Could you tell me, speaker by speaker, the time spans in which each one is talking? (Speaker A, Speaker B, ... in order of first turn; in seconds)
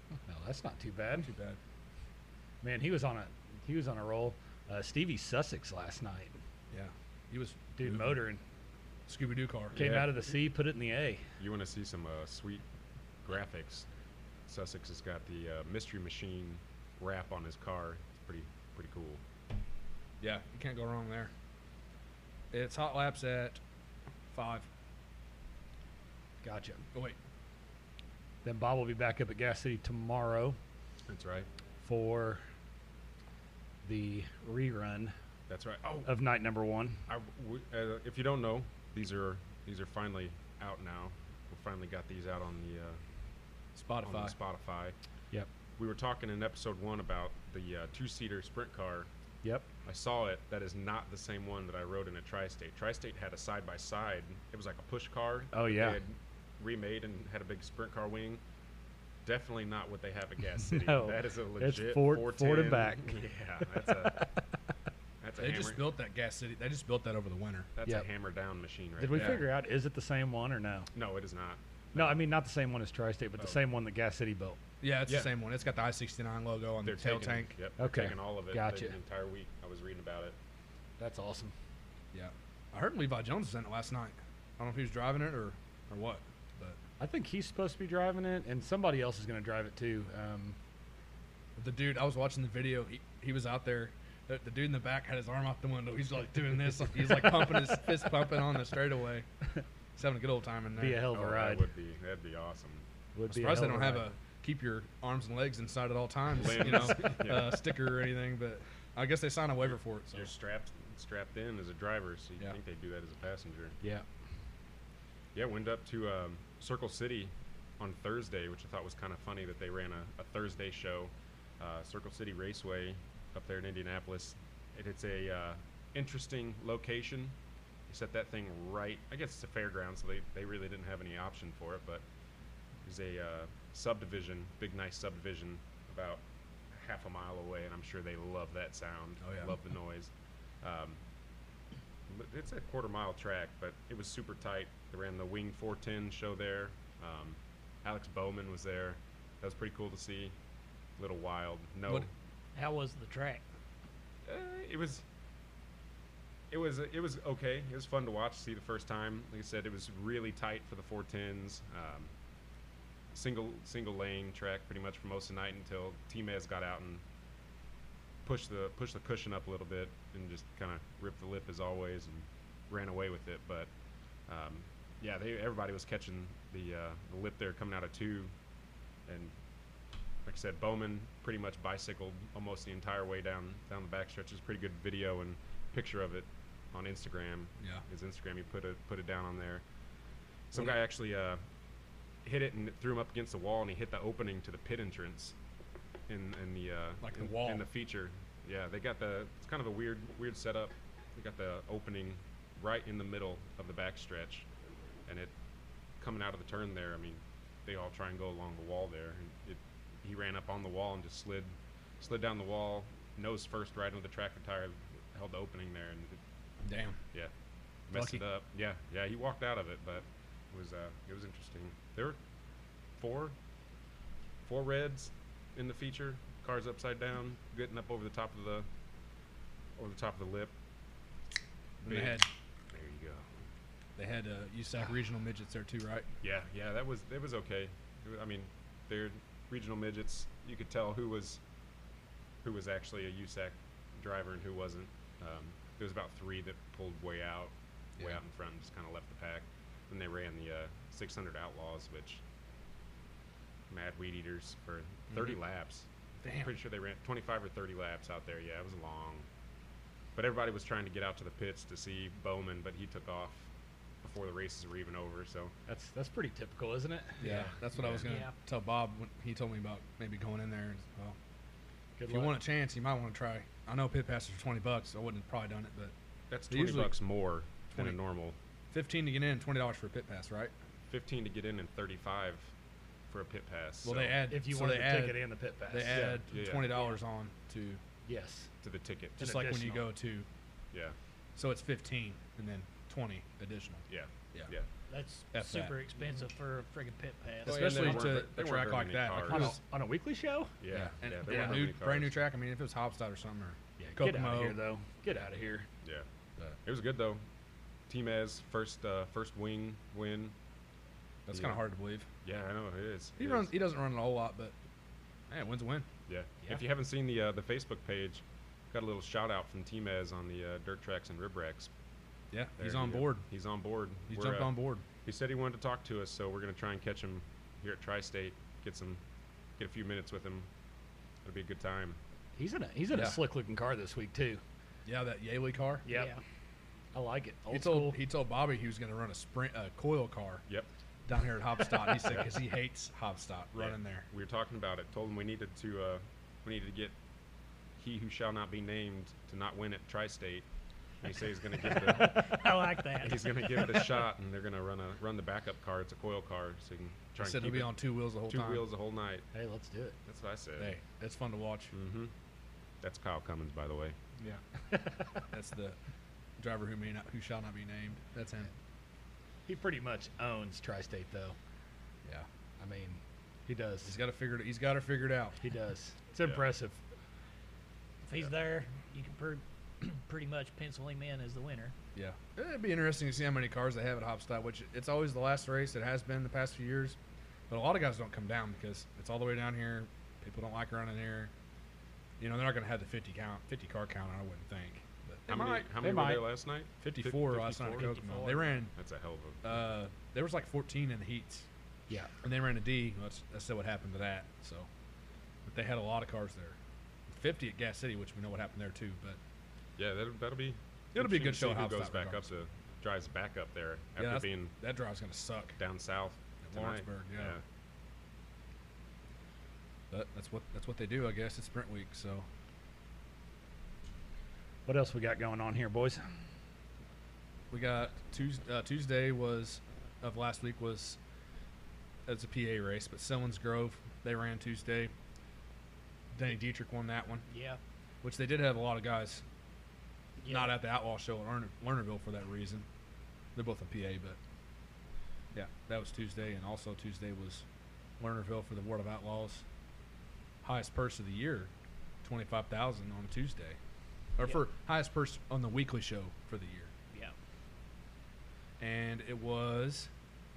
Speaker A: 0.3-1.3, 2.6-6.4, 7.7-8.4, 9.8-11.2, 26.4-26.8, 28.4-30.6, 31.8-32.4, 33.8-35.1, 36.0-37.0, 55.5-56.0, 60.7-63.2, 64.0-64.3, 69.0-70.9, 71.9-74.6, 77.8-78.9, 81.0-81.5, 87.0-90.6, 100.8-101.7, 103.1-104.0, 265.7-267.5, 272.0-272.3, 284.3-286.2, 288.1-288.5, 289.2-289.8, 297.7-298.2, 299.2-300.5, 301.3-301.7, 303.8-305.7, 332.4-334.4, 335.9-336.2, 336.9-338.0, 359.3-360.0, 364.2-365.2, 369.4-371.4, 372.6-373.9, 375.4-376.8, 395.8-396.3, 424.6-426.1
Speaker B: 1.2-1.6, 6.7-8.2, 9.1-9.9, 20.2-21.3, 22.5-23.6, 24.3-24.7, 43.7-44.3, 65.4-67.7, 69.1-69.4, 74.8-77.5, 82.1-86.8, 91.6-99.2, 99.9-101.1, 103.3-110.3, 139.2-139.5, 197.0-197.6, 216.6-217.0, 217.9-218.2, 231.8-232.3, 233.9-236.1, 256.2-256.5, 267.2-271.1, 272.1-275.9, 276.5-276.9, 278.7-280.5, 283.8-287.8, 289.2-290.3, 291.4-294.5, 295.3-295.8, 297.4-299.6, 300.7-304.6, 311.3-312.1, 313.2-314.5, 315.3-315.9, 322.3-323.2, 324.1-324.8, 332.9-333.2, 334.8-335.9, 337.5-340.4, 341.1-344.1, 357.2-358.6, 360.6-361.7, 365.3-365.8, 366.4-368.5, 373.8-375.4, 381.9-387.0, 387.5-391.3, 392.2-395.7, 396.8-398.7, 399.4-401.5, 402.2-404.7, 405.4-406.6, 407.1-409.2, 410.9-412.3, 414.0-415.6, 416.4-417.4, 419.9-422.3, 427.5-431.0, 432.1-434.9, 436.1-437.2, 438.0-439.2, 440.2-442.7, 443.3-444.2, 445.3-447.4, 448.0-449.4, 450.4-451.5, 452.0-453.6, 454.1-456.7, 458.6-459.9
Speaker C: 9.7-10.1, 11.4-12.6, 13.2-13.9, 14.5-19.2, 31.1-31.5, 35.5-36.1, 37.1-43.0, 44.0-45.0, 45.8-49.1, 49.8-58.4, 59.2-64.3, 65.2-65.9, 67.7-69.5, 70.9-72.2, 75.0-75.3, 76.8-80.4, 101.1-102.8, 106.3-107.6, 110.1-113.8, 115.3-127.3, 127.9-132.0, 132.8-140.1, 140.6-141.0, 142.1-150.3, 151.0-152.1, 154.2-155.0, 156.5-162.1, 163.1-167.0, 168.2-173.7, 174.3-178.3, 179.1-179.3, 180.2-189.6, 190.5-191.4, 192.2-195.3, 196.1-204.5, 205.1-205.3, 206.0-216.2, 217.9-222.2, 223.0-223.3, 224.4-228.7, 229.8-230.5, 231.8-233.3, 236.2-241.4, 242.4-252.2, 253.7-259.3, 260.1-263.5, 264.0-265.5, 267.3-268.2, 276.3-278.4, 280.9-282.5, 283.1-284.2, 285.9-286.9, 288.6-289.6, 293.9-294.7, 297.4-299.6, 300.6-302.1, 305.8-306.1, 306.6-307.2, 307.9-310.3, 311.3-311.6, 312.2-313.5, 316.1-321.7, 322.6-329.0, 329.6-330.5, 331.2-332.0, 343.5-346.9, 347.8-350.4, 351.0-352.4, 353.0-359.3, 360.1-360.8, 361.7-362.1, 362.8-363.9, 376.2-376.5, 395.3-398.0, 398.7-399.6, 409.8-414.5, 415.6-417.4
Speaker D: 152.5-153.4, 268.0-268.3, 294.9-297.7, 335.9-336.2, 351.6-353.9, 378.0-381.7, 397.8-398.5, 437.3-437.6, 440.2-440.5